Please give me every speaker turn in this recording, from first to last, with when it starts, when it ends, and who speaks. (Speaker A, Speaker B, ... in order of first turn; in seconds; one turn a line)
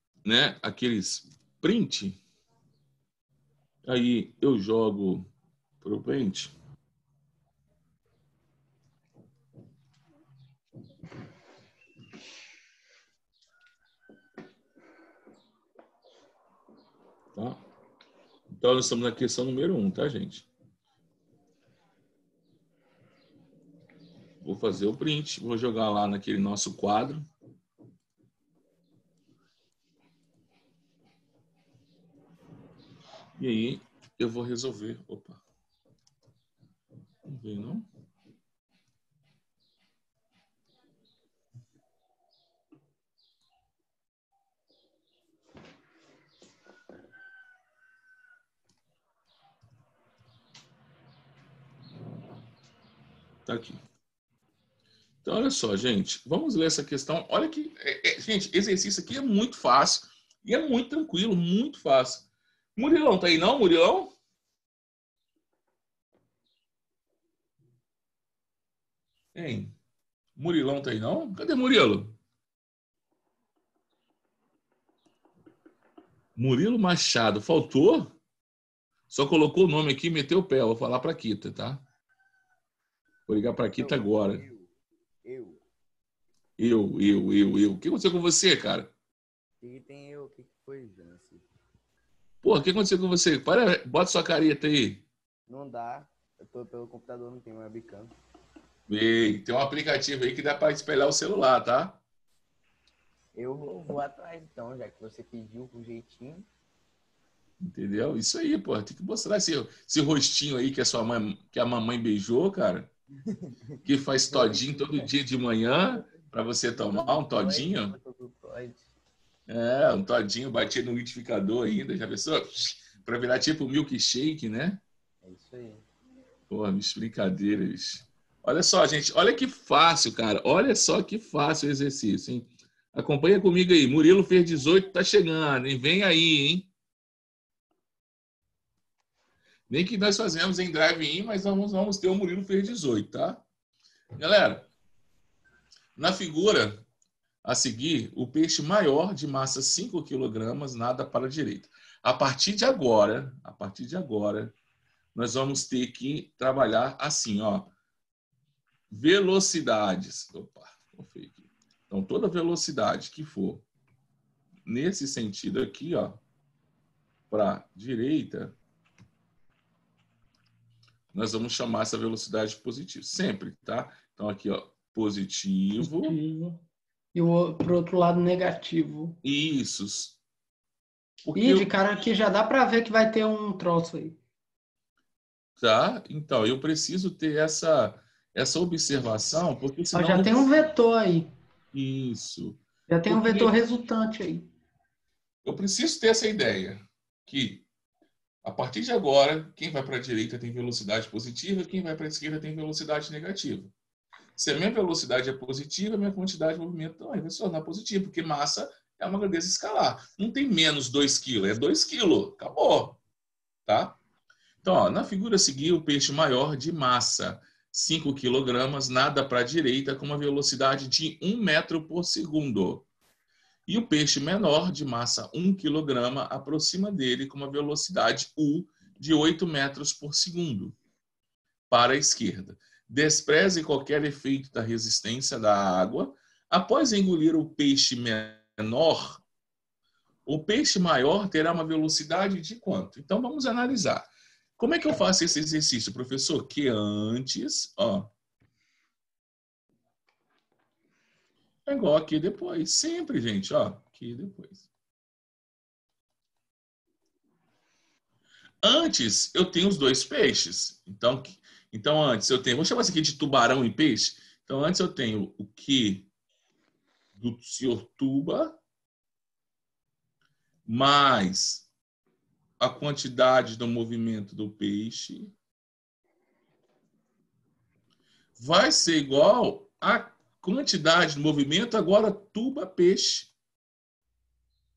Speaker A: 0.2-2.2
Speaker A: 3.9-5.3
Speaker A: 5.8-6.5
Speaker A: 17.4-17.6
Speaker A: 18.5-20.5
Speaker A: 24.4-27.2
Speaker A: 33.4-35.4
Speaker A: 37.2-37.9
Speaker A: 53.5-53.8
Speaker A: 55.2-64.1
Speaker A: 69.3-69.7
Speaker A: 70.4-72.2
Speaker A: 76.4-78.1
Speaker A: 79.1-81.8
Speaker A: 83.3-84.4
Speaker B: 83.8-84.7
Speaker B: 85.2-85.6
Speaker A: 86.6-88.9
Speaker B: 89.6-91.5
Speaker A: 92.4-95.0
Speaker B: 95.5-98.1
Speaker A: 98.9-102.0
Speaker B: 103.3-106.5
Speaker A: 107.6-112.9
Speaker B: 113.2-115.1
Speaker A: 113.8-117.9
Speaker B: 115.9-118.9
Speaker A: 119.5-124.8
Speaker B: 125.2-125.9
Speaker A: 126.5-136.7
Speaker A: 139.7-143.4
Speaker A: 144.2-144.7
Speaker A: 145.9-146.8
Speaker A: 147.4-154.5
Speaker A: 155.1-157.7
Speaker A: 158.9-163.6
Speaker A: 164.7-166.2
Speaker A: 167.3-168.6
Speaker A: 171.1-176.2
Speaker C: 175.8-176.6
Speaker C: 177.1-179.2
Speaker A: 179.2-180.2
Speaker A: 181.2-181.7
Speaker C: 181.3-184.2
Speaker A: 185.6-190.7
Speaker C: 189.9-191.3
Speaker A: 191.7-193.6
Speaker C: 192.9-194.5
Speaker A: 195.4-197.6
Speaker A: 198.4-203.7
Speaker A: 204.4-213.0
Speaker A: 213.7-214.0
Speaker A: 214.6-222.9
Speaker A: 223.7-230.8
Speaker A: 231.7-239.2
Speaker A: 240.2-248.1
Speaker A: 251.7-254.7
Speaker A: 258.6-266.1
Speaker A: 267.1-268.6
Speaker A: 270.7-271.7
Speaker A: 272.6-275.3
Speaker A: 278.4-283.3